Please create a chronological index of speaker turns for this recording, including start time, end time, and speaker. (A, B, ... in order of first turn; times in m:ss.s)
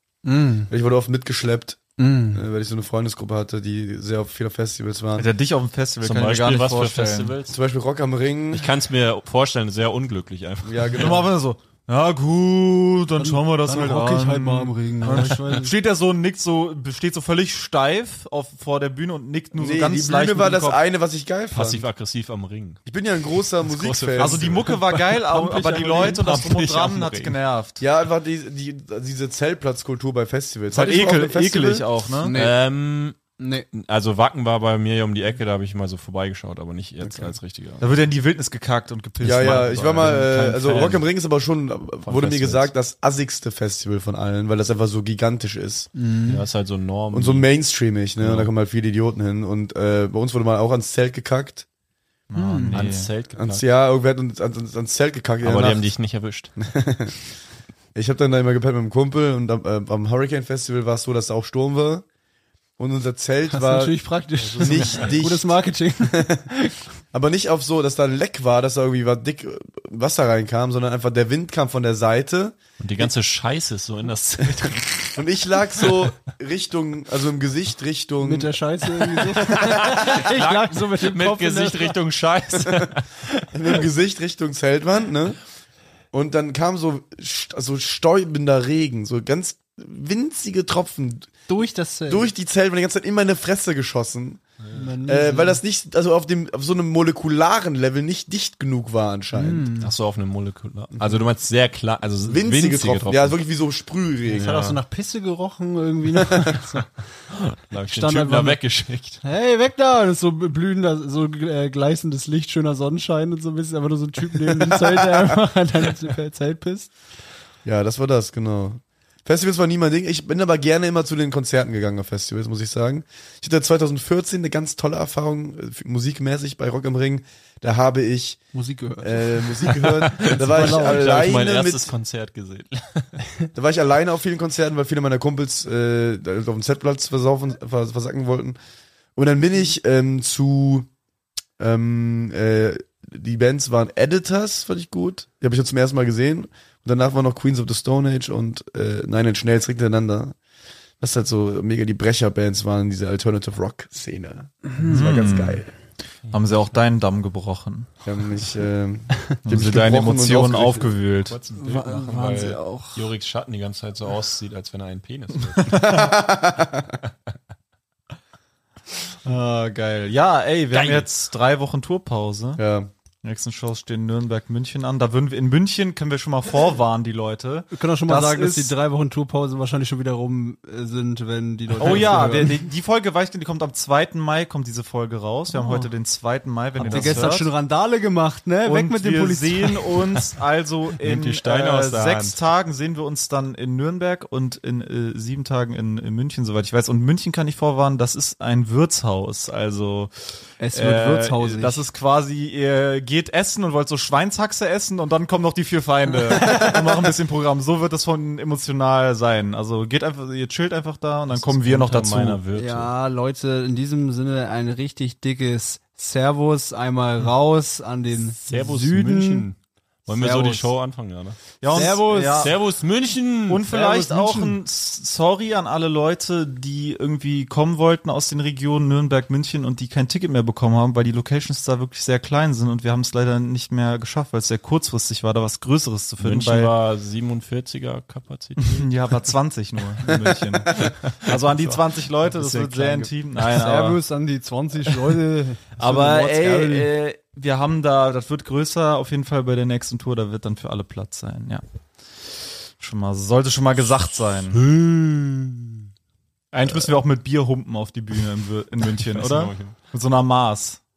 0:00.2-0:00.7 A
0:00.7-0:01.8 B
0:02.0-0:02.4 A
0:02.3-0:05.3 B
0:05.2-0:07.3 C
0:06.0-0:07.6 D
0:07.5-0:08.7 B
0:08.5-0:11.2 D
0:10.6-0:11.3 B
0:10.9-0:20.8 C
0:13.2-0:15.7 A
0:19.5-0:21.9 B
0:21.5-0:22.8 D
0:22.8-0:24.5 B
0:23.4-0:27.4 D
0:24.2-0:27.8 C
0:27.8-0:31.9 B
0:30.7-0:32.3 C
0:32.2-0:32.6 A
0:32.3-0:33.2 D
0:33.4-0:33.7 A
0:33.7-0:37.8 D
0:37.8-0:40.4 C
0:39.2-0:45.9 B
0:39.4-0:41.0 D
0:42.0-0:42.7 D
0:45.9-0:46.4 A
0:46.2-0:47.5 D
0:47.1-0:51.6 B
0:48.2-0:48.5 D
0:52.3-0:53.1 C
0:52.4-0:52.8 A
0:52.7-0:53.6 D
0:53.3-0:55.9 B
0:55.4-0:56.5 D
0:56.6-0:57.1 B
0:57.9-1:02.0 B
1:02.8-1:04.0 B
1:03.5-1:06.9 A
1:04.4-1:05.2 D
1:04.6-1:06.4 B
1:07.1-1:13.1 B
1:12.8-1:15.2 D
1:15.1-1:18.5 B
1:15.8-1:16.1 D
1:18.2-1:22.0 A
1:19.2-1:23.8 D
1:23.5-1:25.4 B
1:26.1-1:31.3 B
1:31.5-1:32.3 A
1:32.1-1:34.4 B
1:34.7-1:35.6 A
1:35.0-1:39.7 B
1:39.3-1:39.9 A
1:39.8-1:43.4 D
1:42.2-1:44.6 B
1:44.3-1:46.9 A
1:44.3-1:44.8 D
1:46.2-1:46.6 B
1:47.3-1:49.2 D
1:47.9-1:48.6 A
1:49.2-1:56.9 A
1:54.9-1:55.4 B
1:57.6-2:08.4 B
2:08.5-2:11.3 A
2:09.0-2:11.9 B
2:09.7-2:13.2 D
2:13.5-2:18.6 B
2:19.2-2:20.9 B
2:21.6-2:30.4 B
2:31.0-2:35.7 B
2:34.8-2:35.7 C
2:36.3-2:37.9 C
2:38.0-2:40.9 B
2:39.4-2:41.4 C
2:41.3-2:45.9 D
2:41.6-2:43.1 A
2:45.6-2:46.1 C
2:45.7-2:46.9 B
2:49.2-2:52.6 C
2:50.7-2:51.1 D
2:52.6-2:52.9 B
2:53.2-2:58.7 C
2:57.7-3:02.6 A
3:01.8-3:07.5 C
3:01.8-3:02.2 D
3:05.5-3:05.8 A
3:06.8-3:07.3 D
3:06.8-3:09.8 A
3:08.6-3:20.1 C
3:11.0-3:12.4 D
3:20.6-3:21.8 A
3:20.7-3:32.4 C
3:31.3-3:32.9 D
3:32.5-3:39.5 A
3:38.4-3:43.6 D
3:40.1-3:40.7 A
3:41.6-3:42.6 C
3:41.7-3:42.5 A
3:43.5-3:56.7 C
3:43.7-3:44.6 A
3:56.2-3:58.9 D
3:58.6-4:04.0 C
4:00.7-4:01.8 D
4:02.3-4:03.0 D
4:03.5-4:06.9 A
4:05.8-4:11.6 C
4:12.8-4:14.6 C
4:14.5-4:15.8 D
4:16.5-4:20.8 C
4:18.9-4:19.8 D